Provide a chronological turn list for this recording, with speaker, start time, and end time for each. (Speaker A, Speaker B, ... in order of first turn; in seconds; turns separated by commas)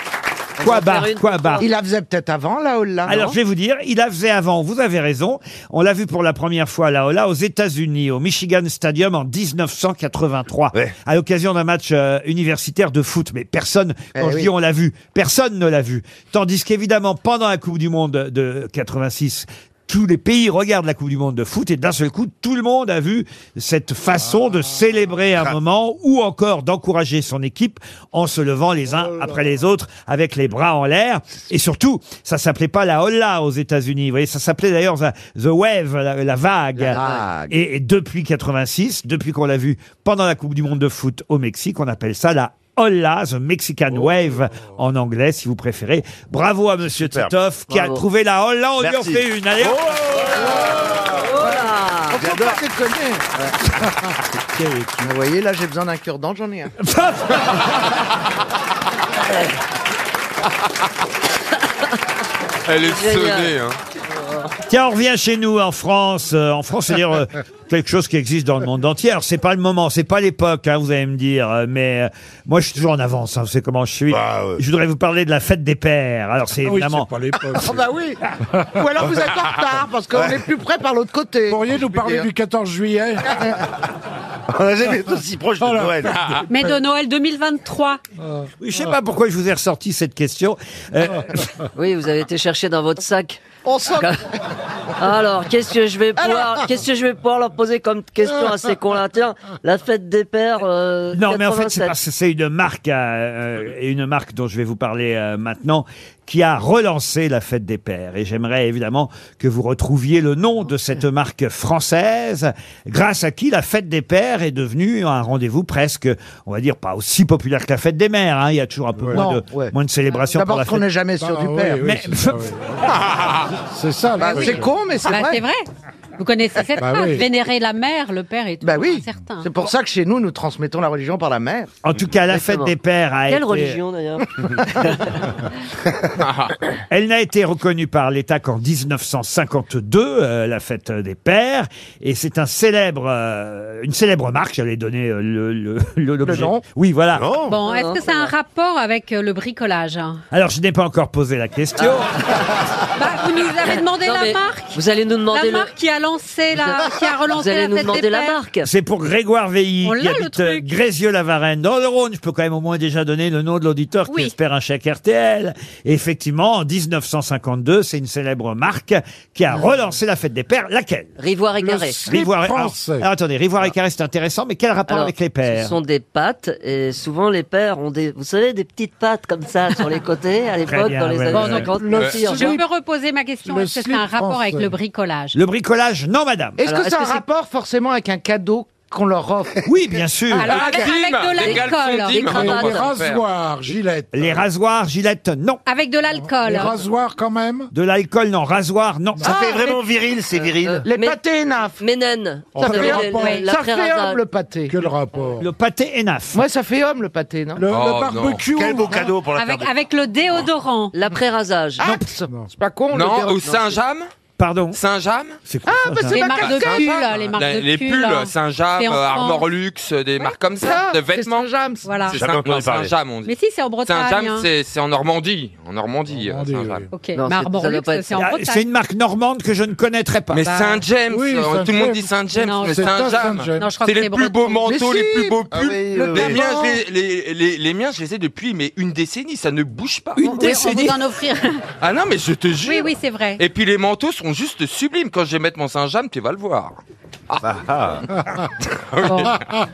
Speaker A: 0.6-1.7, Speaker B: 0.6-1.6, Speaker C: 1.6-3.3, Speaker B: 3.0-50.0, Speaker C: 14.1-14.5, Speaker D: 29.0-29.4, Speaker C: 36.8-37.5, Speaker E: 47.0-47.3, Speaker A: 47.7-48.0, Speaker E: 48.8-51.3, Speaker C: 50.4-53.2, Speaker A: 51.1-52.2, Speaker E: 52.2-52.6, Speaker C: 55.0-56.7, Speaker B: 56.8-57.8, Speaker F: 62.6-63.8, Speaker A: 62.9-63.5, Speaker B: 64.7-77.1, Speaker E: 74.1-74.6, Speaker D: 76.6-77.8, Speaker C: 77.6-82.3, Speaker D: 78.5-78.8, Speaker D: 81.5-83.3, Speaker E: 84.5-86.3, Speaker D: 85.6-86.6, Speaker G: 86.5-88.0, Speaker B: 88.6-91.5, Speaker A: 91.8-93.4, Speaker C: 93.6-94.2, Speaker A: 95.0-102.0, Speaker C: 96.2-96.5, Speaker B: 101.1-120.9, Speaker C: 119.1-119.7, Speaker C: 120.3-121.8, Speaker D: 121.2-122.9, Speaker B: 121.8-122.5, Speaker D: 123.7-124.7, Speaker C: 124.2-125.4, Speaker G: 125.0-129.5, Speaker D: 126.8-127.3, Speaker C: 128.6-131.7, Speaker B: 131.8-133.8, Speaker A: 132.3-132.7, Speaker A: 133.3-135.3, Speaker B: 136.9-147.3, Speaker C: 146.2-146.6, Speaker E: 147.1-147.6, Speaker G: 147.5-150.2, Speaker A: 147.6-148.3, Speaker B: 150.3-152.5, Speaker A: 151.8-152.0, Speaker G: 152.9-158.4, Speaker A: 153.7-155.7, Speaker A: 156.5-158.7, Speaker B: 158.6-171.2, Speaker G: 159.8-160.7, Speaker G: 164.1-164.3, Speaker A: 171.2-172.0, Speaker D: 171.6-173.1, Speaker B: 172.1-175.7, Speaker A: 174.9-182.6, Speaker B: 180.7-181.7, Speaker G: 181.3-185.3, Speaker D: 181.7-182.6, Speaker D: 183.4-184.7, Speaker B: 185.3-186.6, Speaker C: 186.6-189.7, Speaker A: 186.6-187.2, Speaker B: 189.7-190.6, Speaker G: 190.3-192.3, Speaker F: 190.4-193.2, Speaker A: 191.4-192.9, Speaker D: 192.3-194.4, Speaker B: 194.1-195.6, Speaker G: 195.7-196.8, Speaker D: 196.2-197.7, Speaker B: 197.7-199.3, Speaker E: 199.2-200.8, Speaker C: 199.2-199.6, Speaker A: 200.6-201.2, Speaker C: 200.8-201.8, Speaker A: 201.8-204.2, Speaker D: 202.5-203.4, Speaker C: 202.7-204.8, Speaker G: 202.9-203.4, Speaker D: 204.7-205.5, Speaker B: 205.4-206.4, Speaker C: 206.3-207.6, Speaker D: 207.6-209.2, Speaker F: 207.7-208.4, Speaker E: 208.5-209.7, Speaker G: 209.3-210.9, Speaker A: 210.9-211.9, Speaker C: 211.8-213.4, Speaker B: 211.8-212.1, Speaker F: 212.9-214.1, Speaker A: 213.4-213.8, Speaker B: 214.4-214.8, Speaker F: 214.7-215.4, Speaker B: 215.5-216.3, Speaker C: 215.7-217.1, Speaker G: 216.1-219.5, Speaker F: 216.4-221.5, Speaker C: 220.6-222.1, Speaker G: 221.8-222.2, Speaker E: 222.1-222.9, Speaker F: 222.1-226.9, Speaker G: 223.2-224.5, Speaker D: 226.1-226.8, Speaker G: 226.9-228.6, Speaker A: 227.1-228.2, Speaker B: 228.2-230.5, Speaker F: 230.3-240.3, Speaker G: 230.4-230.8, Speaker D: 231.1-232.1, Speaker G: 232.4-233.0, Speaker D: 232.7-233.7, Speaker G: 233.6-234.6, Speaker C: 234.7-236.8, Speaker E: 235.5-236.7, Speaker B: 240.2-241.0, Speaker G: 240.2-241.6, Speaker F: 241.8-246.8, Speaker G: 242.6-243.4, Speaker E: 247.4-248.0, Speaker F: 248.7-249.4, Speaker G: 249.1-249.3